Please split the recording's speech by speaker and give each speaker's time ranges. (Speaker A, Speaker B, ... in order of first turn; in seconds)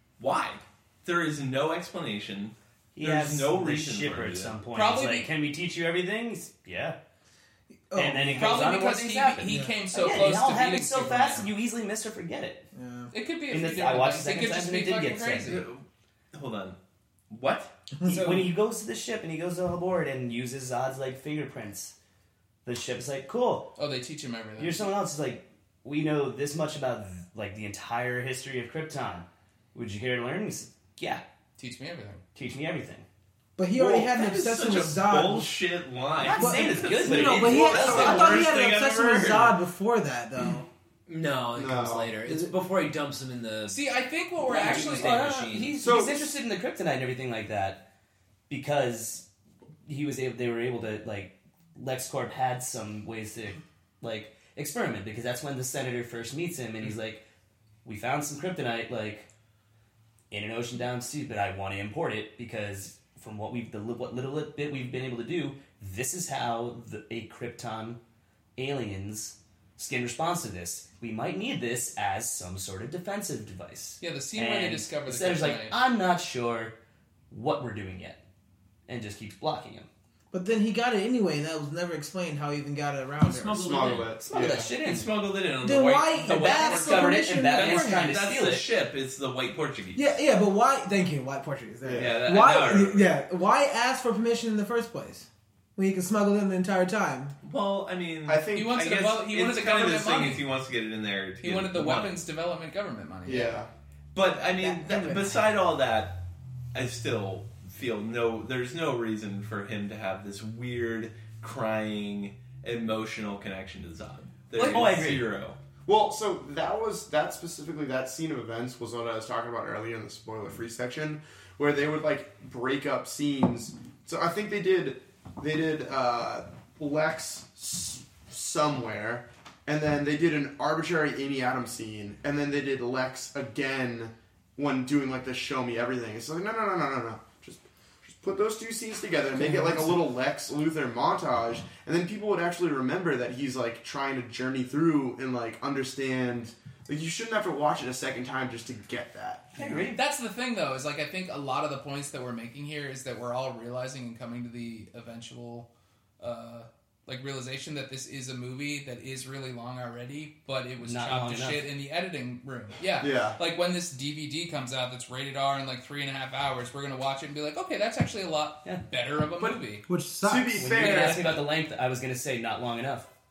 Speaker A: 0.2-4.6, 15.5-16.8, 17.3-17.7, 33.8-39.6, 83.2-90.2, 91.9-93.1, 97.4-102.2, 104.1-106.2, 106.7-115.6
Speaker B: 3.0-7.0, 8.0-12.7, 13.5-15.6, 18.0-21.9, 22.6-23.7, 24.6-31.2, 32.3-33.0, 36.2-38.5, 44.5-47.8, 48.5-49.3, 49.9-57.2, 57.8-59.3, 60.3-68.0, 68.6-76.8, 77.3-78.2, 78.9-79.9, 84.2-85.1, 86.2-88.6, 114.6-115.2, 139.5-139.7, 149.6-150.0, 160.8-161.7, 170.6-173.1
Speaker C: 4.7-5.3, 8.4-11.5, 13.1-15.6, 23.8-24.9, 31.6-32.2, 43.7-45.2, 74.0-75.8, 98.5-100.5, 101.4-103.6, 114.5-114.9, 149.9-155.7, 156.2-169.8, 170.7-171.4
Speaker D: 7.9-8.7, 9.4-9.8, 12.7-13.1, 18.0-18.3, 33.6-35.5, 36.3-40.7, 80.3-83.8, 85.6-88.2, 89.9-97.3, 104.3-105.5, 169.9-170.7
Speaker E: 18.1-18.5, 41.1-43.8, 44.5-45.9
Speaker F: 41.5-42.1, 45.8-46.4, 83.5-84.7, 91.8-92.2, 98.2-98.8, 103.2-103.7, 115.8-149.9, 163.0-163.4, 170.2-171.3